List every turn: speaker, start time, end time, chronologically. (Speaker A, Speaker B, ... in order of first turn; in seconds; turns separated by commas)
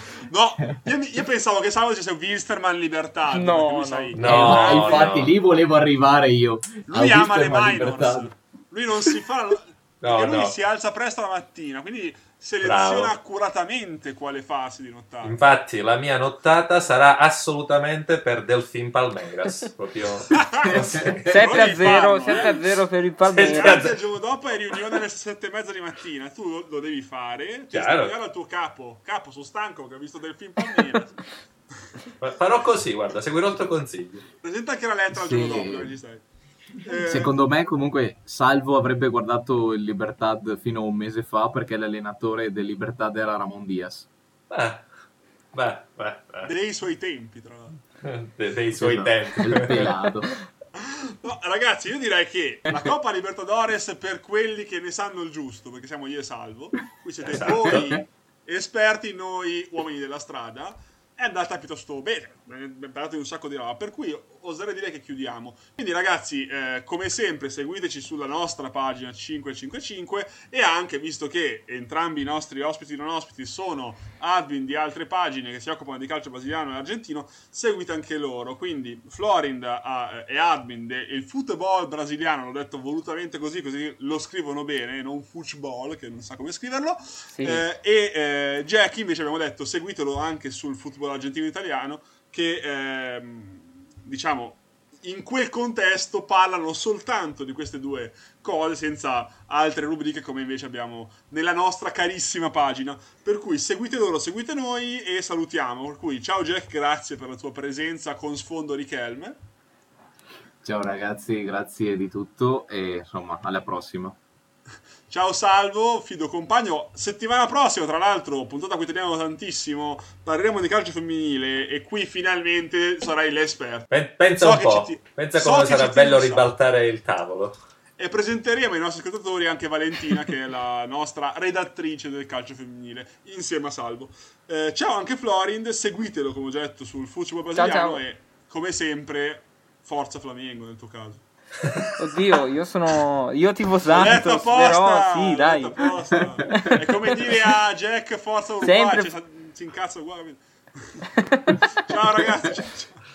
Speaker A: 0.2-5.2, Speaker B: 3.3-4.8, Speaker C: 4.1-5.3, Speaker D: 4.2-8.3, Speaker A: 6.9-15.4, Speaker C: 10.0-10.5, Speaker C: 12.6-13.1, Speaker C: 15.2-22.4, Speaker A: 20.3-22.8, Speaker D: 20.7-21.2, Speaker B: 21.2-23.8, Speaker C: 23.2-23.9, Speaker A: 23.4-31.3, Speaker C: 27.7-28.1, Speaker C: 32.2-34.2, Speaker A: 34.4-36.2, Speaker D: 35.1-36.0, Speaker A: 36.8-37.4, Speaker D: 37.0-44.1, Speaker C: 44.5-44.9, Speaker C: 45.5-46.5, Speaker A: 46.4-47.8, Speaker C: 48.0-50.0, Speaker D: 48.8-50.3, Speaker A: 50.8-109.4, Speaker C: 57.2-58.0, Speaker D: 57.7-58.0, Speaker B: 87.3-87.7, Speaker D: 110.6-114.2, Speaker A: 115.1-126.5, Speaker C: 123.9-127.6, Speaker A: 128.0-141.8, Speaker B: 137.5-138.0, Speaker B: 142.0-145.9, Speaker A: 143.9-151.1, Speaker B: 146.5-147.4, Speaker B: 148.6-149.1, Speaker B: 151.2-151.6, Speaker A: 151.8-153.0